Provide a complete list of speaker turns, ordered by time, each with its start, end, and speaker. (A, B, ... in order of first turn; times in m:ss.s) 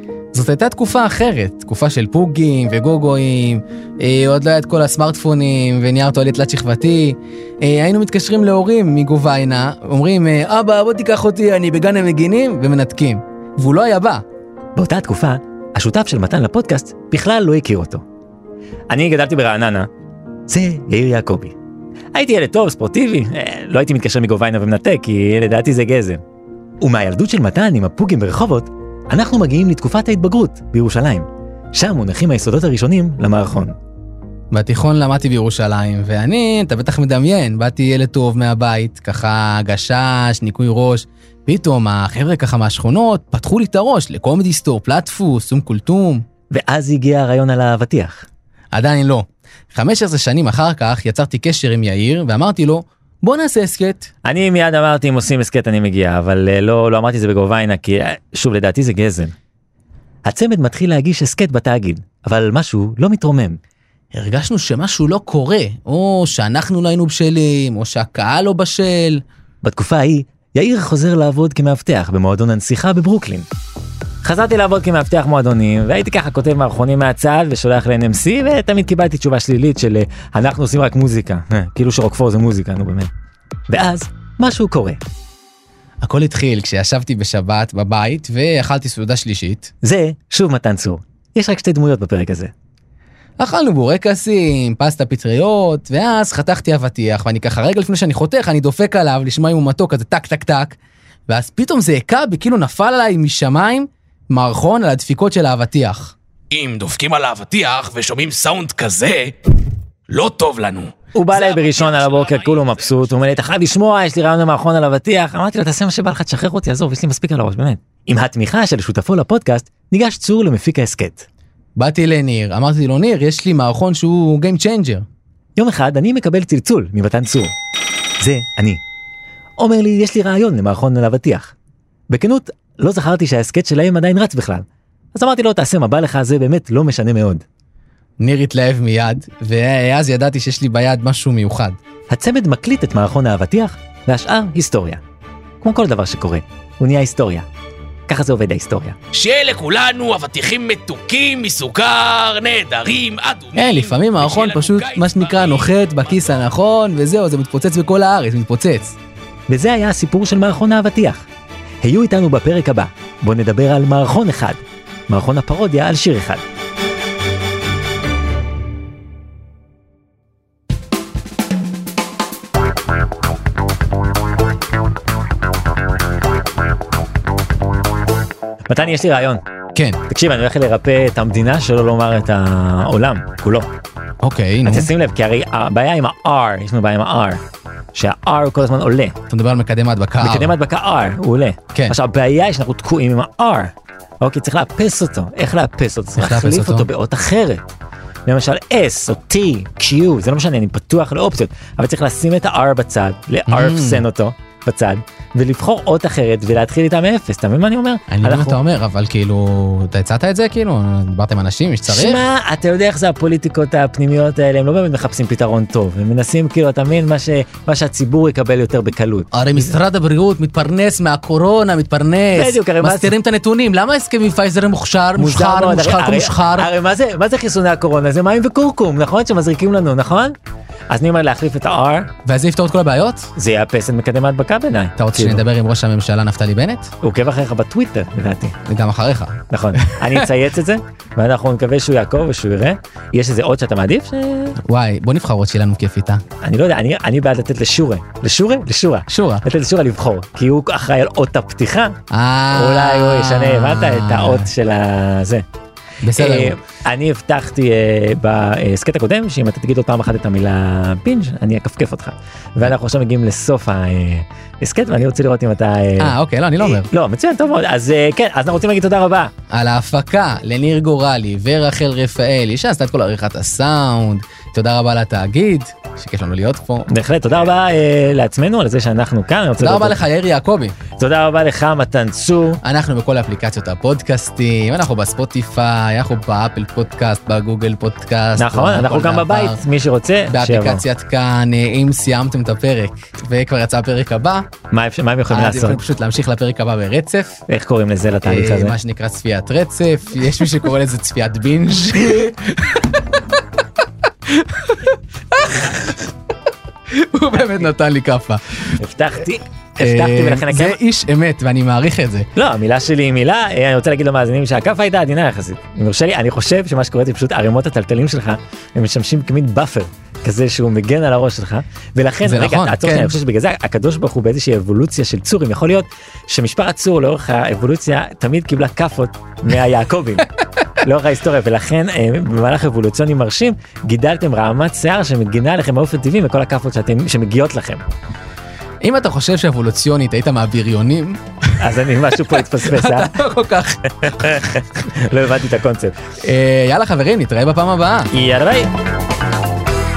0:00.3-0:14.2 A
0:14.8-0:18.0 B
0:18.9-0:19.9 B
0:20.5-0:21.6 B
0:22.1-0:26.2 B
0:26.8-0:33.8 B
0:34.5-0:46.2 A
0:46.5-0:48.3 B
0:48.7-0:54.1 A
0:54.2-0:59.3 B
1:00.2-1:03.6 B
1:04.1-1:09.2 A
1:09.6-1:13.5 B
1:14.2-1:23.1 B
1:23.7-1:25.0 B
1:26.0-1:29.7 A
1:29.8-1:32.5 B
1:33.4-1:46.1 A
1:46.5-1:49.4 C
1:50.1-1:53.2 C
1:51.1-2:01.3 B
2:01.8-2:05.0 A
2:05.6-2:07.5 B
2:08.2-2:08.8 B
2:09.6-2:11.5 B
2:12.1-2:17.4 B
2:18.2-2:21.8 A
2:22.1-2:25.0 B
2:25.6-2:27.5 B
2:28.1-2:29.0 B
2:29.1-2:36.4 C
2:33.6-2:39.0 A
2:39.5-2:41.2 B
2:41.8-2:46.4 B
2:58.7-2:59.4 B
2:59.8-3:00.0 A
3:00.1-3:03.7 B
3:04.2-3:04.9 A
3:04.6-3:07.4 B
3:07.9-3:09.2 B
3:09.3-3:10.6 A
3:10.2-3:17.7 B
3:16.2-3:16.9 A
3:18.3-3:28.6 B
3:23.5-3:24.0 A
3:28.1-3:32.2 A
3:31.9-3:39.6 B
3:39.3-3:46.7 A
3:42.3-3:43.1 B
3:45.2-3:50.4 B
3:50.9-3:52.1 B
3:52.3-3:53.3 A
3:53.4-3:55.4 B
3:55.0-3:56.9 A
3:57.0-3:58.6 B
3:58.7-4:00.3 A
3:59.5-4:04.6 B
4:04.6-4:06.2 A
4:06.4-4:12.0 B
4:09.1-4:09.4 A
4:12.1-4:14.5 A
4:12.5-4:15.5 B
4:16.0-4:16.6 A
4:16.2-4:29.3 B
4:26.0-4:26.9 A
4:29.5-4:36.9 A
4:36.9-4:40.0 B
4:39.6-4:40.8 A
4:41.0-4:42.6 B
4:42.6-4:49.6 A
4:48.4-4:50.8 B
4:50.3-4:54.5 A
4:54.7-4:55.8 B
4:55.3-4:57.4 A
4:57.5-4:58.8 B
4:58.2-5:03.2 A
5:04.3-5:06.1 A
5:06.9-5:08.8 A
5:08.8-5:10.8 B
5:09.8-5:12.3 A
5:12.4-5:30.3 B
5:22.2-5:23.2 A
5:30.8-5:37.8 B
5:38.8-5:41.2 A
5:41.6-5:43.2 B
5:42.2-5:44.4 A
5:44.0-5:45.9 B
5:46.2-5:48.1 A
5:48.1-5:48.7 B